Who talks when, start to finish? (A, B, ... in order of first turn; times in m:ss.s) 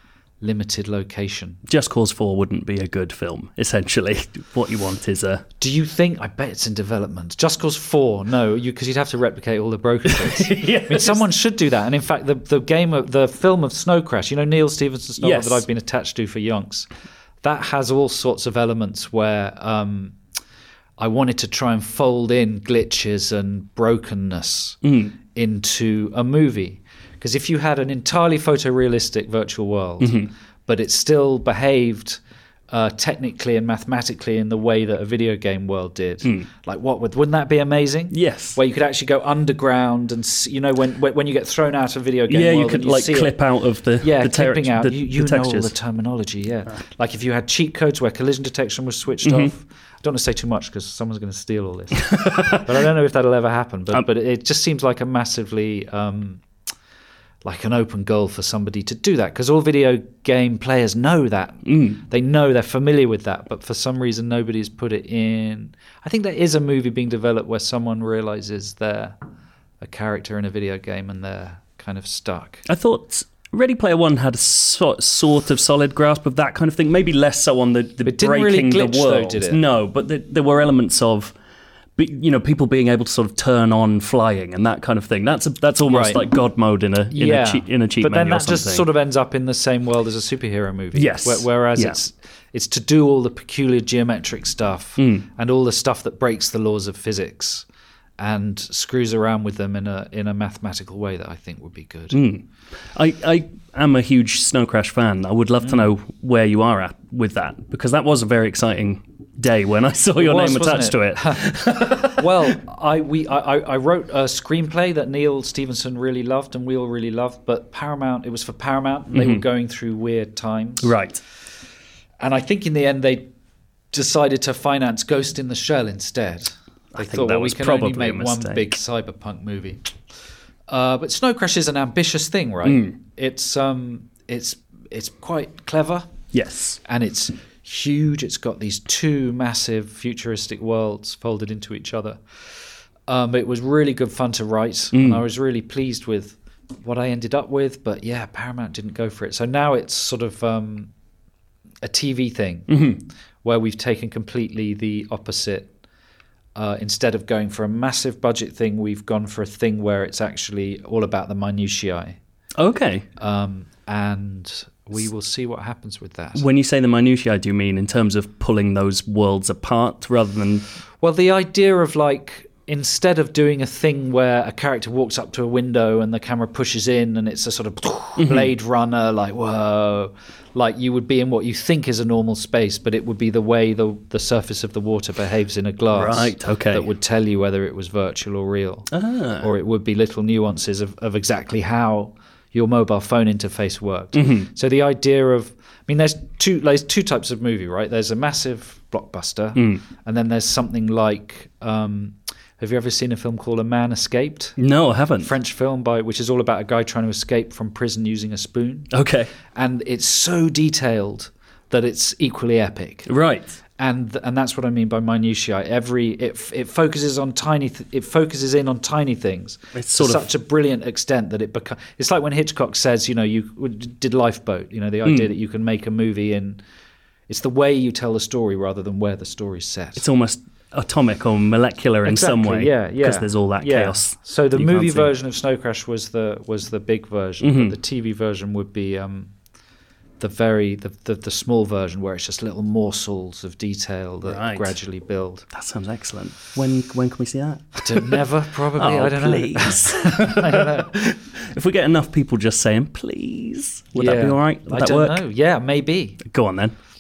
0:00.4-0:01.6 A
0:01.7-0:05.4 B
0:05.6-0:16.9 A
0:10.1-0:11.3 B
0:15.2-0:15.6 B
0:17.4-0:20.2 A
0:21.0-0:24.8 A
0:24.8-0:25.1 B
0:25.3-0:43.4 A
0:30.0-0:30.3 B
0:36.2-0:36.5 B
0:38.1-0:38.6 B
0:42.3-0:45.7 B
0:44.0-0:56.4 A
0:49.2-0:49.5 B
0:52.1-0:52.7 B
0:57.4-1:09.2 A
1:01.6-1:02.0 B
1:09.8-1:12.7 A
1:12.7-1:21.3 B
1:18.0-1:19.6 A
1:22.0-1:28.9 B
1:25.9-1:26.2 A
1:27.1-1:37.7 A
1:31.0-1:32.0 B
1:35.0-1:35.3 B
1:38.2-1:42.2 A
1:42.1-1:52.5 B
1:45.6-1:45.9 A
1:50.2-2:01.0 A
1:59.1-1:59.4 B
2:00.8-2:01.2 B
2:02.2-2:03.3 A
2:03.9-2:09.9 A
2:07.0-2:08.8 B
2:10.7-2:16.1 A
2:12.6-2:13.0 B
2:16.3-2:16.8 B
2:16.8-2:22.2 A
2:23.1-2:30.9 A
2:24.9-2:25.2 B
2:31.8-2:32.9 A
2:32.7-2:33.0 B
2:33.4-2:35.7 A
2:36.6-2:42.2 A
2:42.6-2:43.1 B
2:43.2-2:46.4 A
2:46.4-2:50.7 B
2:51.0-3:24.6 A
2:58.2-2:58.5 B
3:05.9-3:06.9 B
3:08.9-3:09.5 B
3:14.1-3:14.5 B
3:19.6-3:19.8 B
3:24.6-3:25.3 B
3:25.2-3:28.9 A
3:28.9-3:29.3 B
3:29.5-3:33.1 A
3:33.1-3:33.6 B
3:33.8-3:46.6 A
3:39.8-3:40.2 B
3:45.0-3:45.3 B
3:47.3-3:50.1 A
3:50.0-3:55.1 B
3:52.0-3:59.3 A
3:57.4-3:57.8 B
4:00.2-4:05.4 A
4:04.2-4:04.7 B
4:05.5-4:08.2 B
4:07.8-4:10.9 A
4:08.8-4:15.2 B
4:14.0-4:16.2 A
4:16.2-4:16.8 B